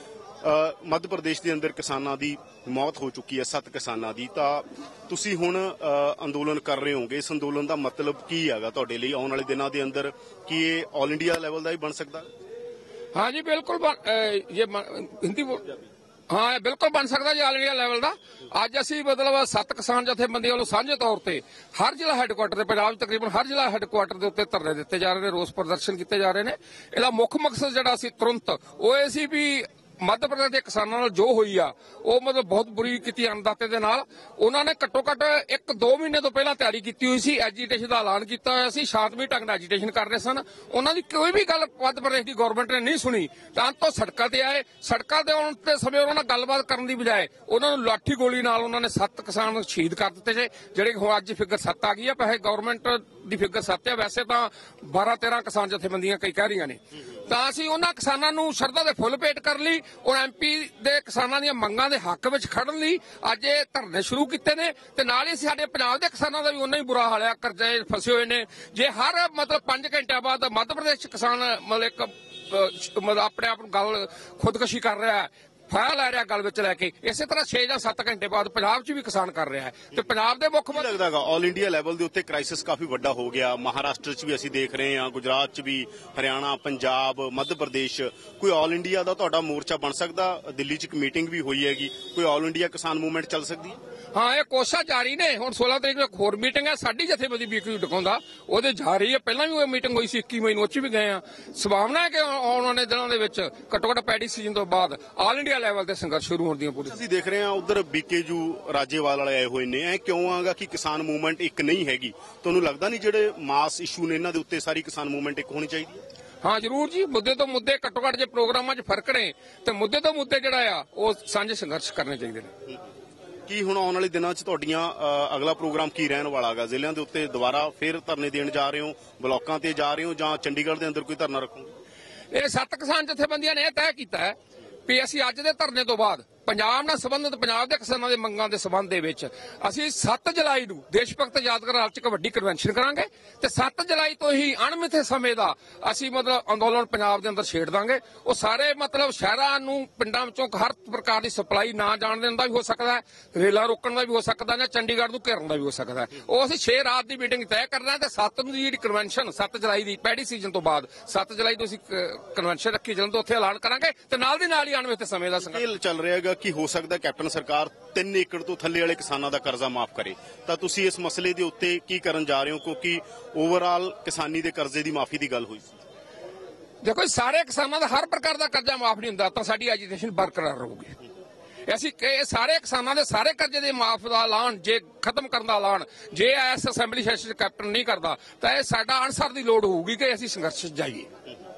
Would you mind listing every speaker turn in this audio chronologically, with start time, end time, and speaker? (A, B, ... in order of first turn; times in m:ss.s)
0:00.4-0:12.3 A
0:13.1-0:15.7 B
0:16.3-1:20.9 B
1:20.7-1:33.8 A
1:34.1-1:47.0 B
1:46.8-1:56.0 A
1:56.4-2:02.5 B
2:03.5-2:11.7 A
2:12.3-2:45.6 B
2:45.4-2:55.8 A
2:56.8-3:01.0 B
3:01.7-3:11.1 B